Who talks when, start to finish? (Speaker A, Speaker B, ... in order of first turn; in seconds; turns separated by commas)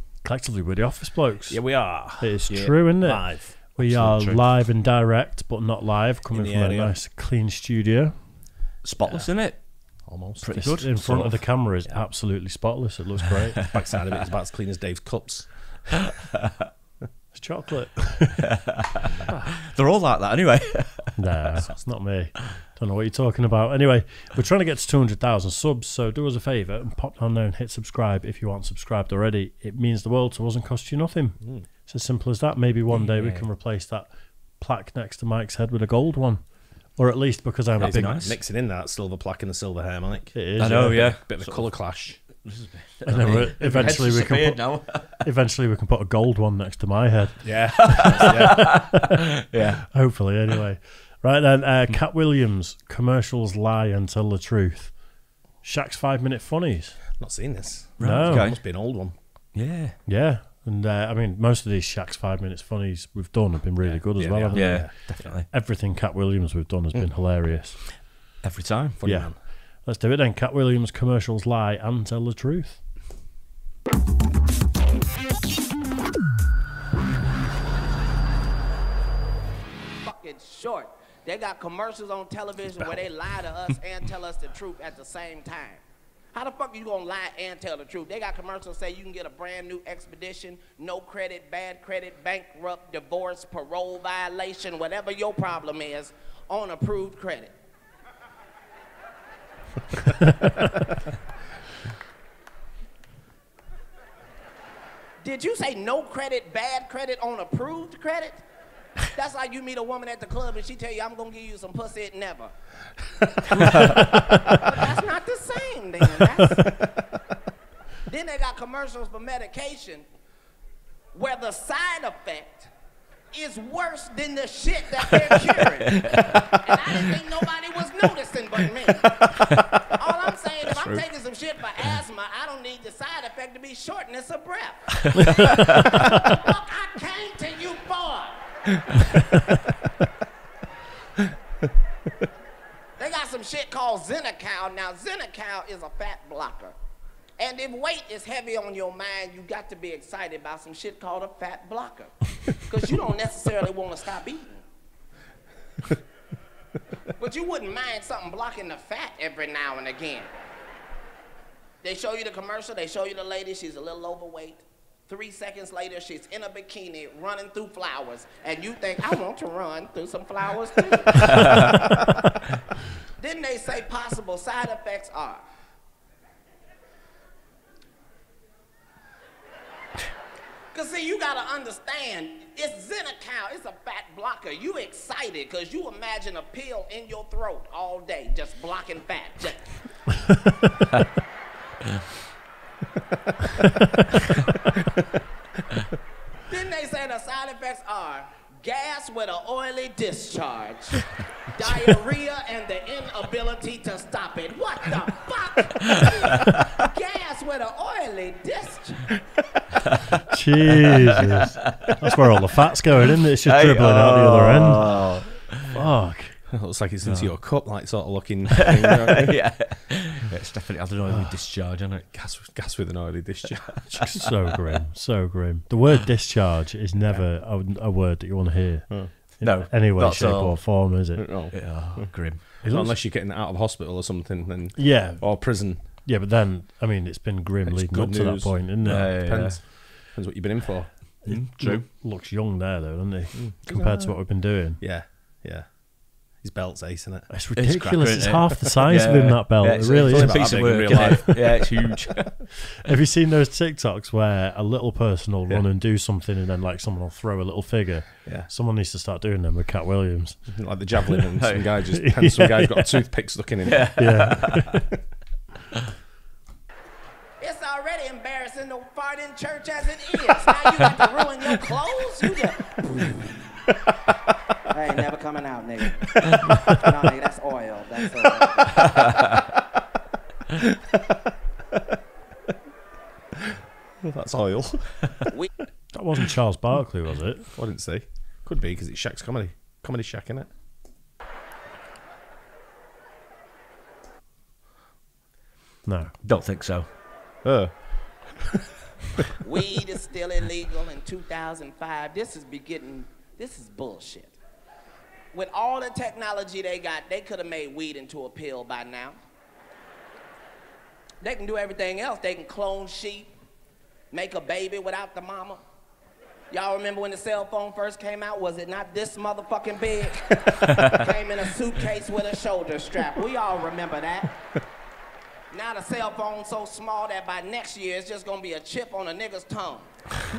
Speaker A: 0.2-8.3, Speaker B: 1.5-3.7, Speaker C: 2.5-2.8, Speaker C: 3.8-4.5, Speaker B: 6.3-7.0, Speaker C: 8.8-11.5, Speaker B: 9.8-11.0, Speaker A: 10.6-13.6, Speaker B: 13.7-16.0, Speaker A: 17.3-18.5, Speaker A: 19.3-19.5, Speaker C: 19.7-21.2, Speaker A: 21.2-38.4, Speaker B: 21.6-21.9, Speaker C: 32.9-33.5, Speaker B: 37.8-42.2, Speaker C: 37.8-38.4, Speaker A: 40.3-41.2, Speaker C: 40.6-45.2, Speaker A: 43.1-48.2, Speaker B: 47.4-49.1, Speaker C: 47.8-49.8, Speaker A: 49.8-55.0, Speaker A: 55.6-57.0, Speaker B: 57.2-59.2, Speaker C: 58.0-60.0, Speaker A: 58.0-58.6, Speaker A: 60.0-68.0, Speaker B: 64.2-65.3, Speaker C: 64.5-65.5, Speaker C: 68.4-69.0, Speaker B: 69.0-69.4, Speaker A: 69.0-72.9, Speaker D: 80.0-85.8, Speaker D: 86.3-97.5, Speaker D: 105.2-108.4, Speaker D: 109.1-112.5, Speaker D: 114.5-116.8, Speaker D: 118.1-120.0, Speaker D: 121.1-122.7, Speaker D: 123.3-134.9, Speaker C: 126.0-126.5, Speaker C: 130.6-131.1, Speaker C: 135.1-135.9, Speaker D: 136.0-138.4, Speaker D: 143.0-146.8, Speaker D: 147.4-154.7, Speaker D: 157.2-160.3, Speaker D: 161.8-171.7, Speaker D: 173.1-175.4, Speaker D: 180.7-189.8, Speaker D: 196.5-209.2, Speaker A: 210.3-216.4, Speaker C: 213.4-215.8, Speaker B: 216.5-219.8, Speaker C: 217.0-217.4, Speaker C: 219.2-222.1, Speaker B: 222.1-224.0, Speaker A: 223.9-231.3, Speaker C: 229.4-230.7, Speaker B: 231.2-235.9, Speaker C: 231.5-232.4, Speaker A: 232.6-233.0, Speaker A: 234.8-239.6, Speaker B: 237.7-241.0, Speaker C: 238.8-239.6, Speaker A: 241.2-244.8, Speaker C: 241.2-241.9, Speaker B: 243.3-247.3, Speaker A: 247.3-250.4, Speaker C: 247.6-252.5, Speaker B: 249.9-251.7, Speaker A: 252.8-261.3, Speaker B: 258.2-258.5, Speaker B: 260.5-264.4, Speaker C: 261.4-261.8, Speaker A: 261.8-263.0, Speaker C: 263.7-264.8, Speaker A: 263.9-264.9, Speaker D: 267.4-273.3, Speaker D: 274.6-276.1, Speaker D: 276.6-278.9, Speaker B: 284.0-285.3, Speaker A: 285.9-287.5, Speaker B: 287.5-290.5, Speaker A: 295.9-296.1, Speaker C: 296.2-296.9, Speaker B: 297.4-298.6, Speaker D: 299.4-304.3, Speaker D: 305.3-309.2, Speaker D: 311.2-313.3, Speaker D: 314.1-315.6, Speaker D: 316.5-324.4, Speaker D: 325.5-329.9